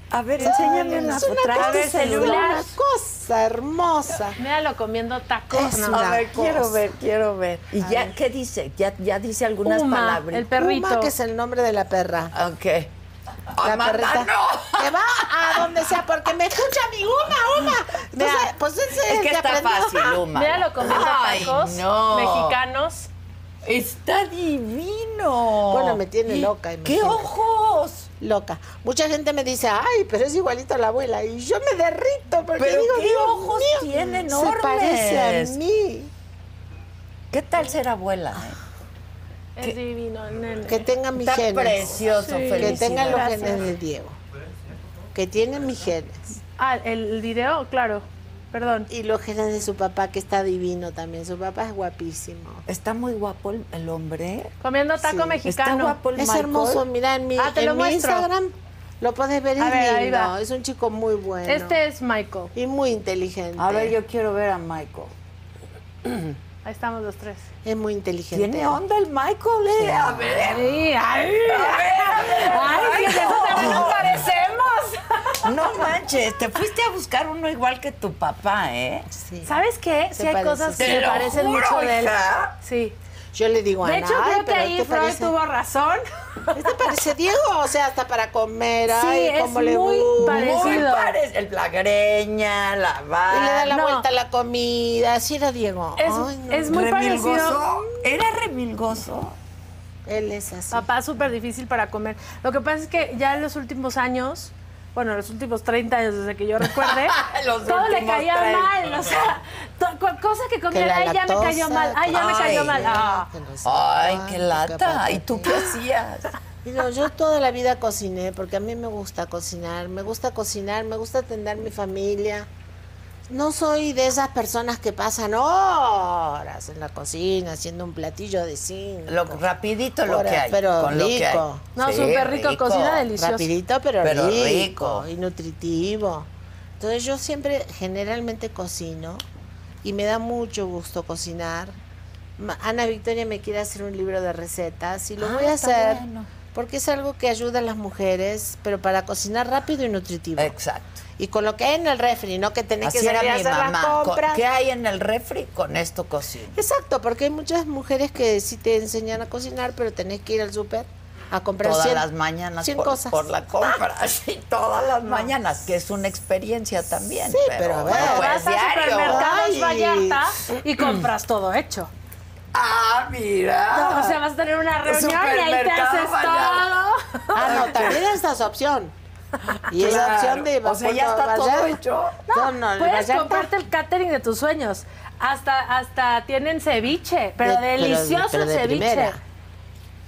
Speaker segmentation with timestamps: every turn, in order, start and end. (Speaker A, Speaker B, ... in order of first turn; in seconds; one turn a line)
Speaker A: 0.1-2.6
Speaker B: 0.4-2.8
Speaker C: 0.4-4.4
Speaker B: 4.4-6.1
Speaker C: 5.5-6.8
Speaker A: 5.9-10.5
Speaker C: 7.8-8.1
Speaker B: 9.7-11.1
Speaker C: 10.6-12.3
Speaker A: 12.3-12.9
Speaker A: 13.5-15.9
Speaker C: 13.6-20.2
Speaker A: 17.6-22.6
Speaker B: 20.3-23.1
Speaker A: 23.6-28.1
Speaker C: 25.7-27.3
Speaker C: 28.2-36.1
Speaker A: 32.6-35.6
Speaker A: 37.3-38.6
Speaker B: 39.6-40.9
Speaker C: 40.7-41.8
Speaker A: 41.1-43.7
Speaker B: 42.2-43.7
Speaker C: 42.5-44.2
Speaker C: 45.1-46.4
Speaker B: 46.6-48.9
Speaker C: 48.9-52.6
Speaker A: 52.7-54.5
Speaker B: 54.6-56.1
Speaker C: 55.0-55.4
Speaker A: 55.4-56.8
Speaker C: 56.1-61.8
Speaker B: 57.4-58.3
Speaker B: 59.6-60.3
Speaker B: 61.5-62.5
Speaker C: 62.5-64.0
Speaker A: 63.6-65.1
Speaker B: 66.6-67.5
Speaker C: 67.7-68.8
Speaker A: 68.3-70.8
Speaker C: 69.8-70.4
Speaker B: 70.4-75.8
Speaker A: 71.5-74.3
Speaker A: 75.4-79.1
Speaker C: 79.1-79.6
Speaker B: 79.5-83.0
Speaker C: 80.2-81.3
Speaker A: 80.8-82.5
Speaker C: 83.3-85.3
Speaker B: 83.8-86.9
Speaker C: 86.5-90.9
Speaker B: 88.9-91.2
Speaker A: 90.2-93.7
Speaker C: 93.3-96.8
Speaker B: 93.7-94.0
Speaker B: 96.0-97.7
Speaker A: 96.7-99.4
Speaker C: 100.1-100.9
Speaker B: 100.7-113.3
Speaker A: 106.6-109.4
Speaker C: 110.7-115.7
Speaker A: 112.1-113.1
Speaker A: 113.6-116.3
Speaker C: 116.6-122.5
Speaker C: 123.3-129.4
Speaker A: 129.1-133.1
Speaker C: 130.1-131.7
Speaker B: 131.8-133.5
Speaker C: 133.2-136.3
Speaker A: 134.0-135.1
Speaker C: 136.8-139.2
Speaker C: 139.8-141.8
Speaker C: 142.4-150.5
Speaker A: 145.2-146.3
Speaker A: 150.4-151.0
Speaker C: 151.2-154.4
Speaker A: 152.8-156.6
Speaker C: 156.5-162.1
Speaker A: 161.6-169.3
Speaker C: 162.6-163.8
Speaker C: 167.3-168.4
Speaker B: 167.9-171.9
Speaker C: 169.0-170.5
Speaker A: 170.8-171.1
Speaker A: 172.5-174.2
Speaker B: 173.7-177.9
Speaker A: 174.8-176.8
Speaker C: 177.3-178.9
Speaker A: 177.3-178.1
Speaker A: 179.7-182.2
Speaker C: 179.7-181.7
Speaker B: 182.3-189.2
Speaker C: 182.3-183.5
Speaker C: 187.4-189.2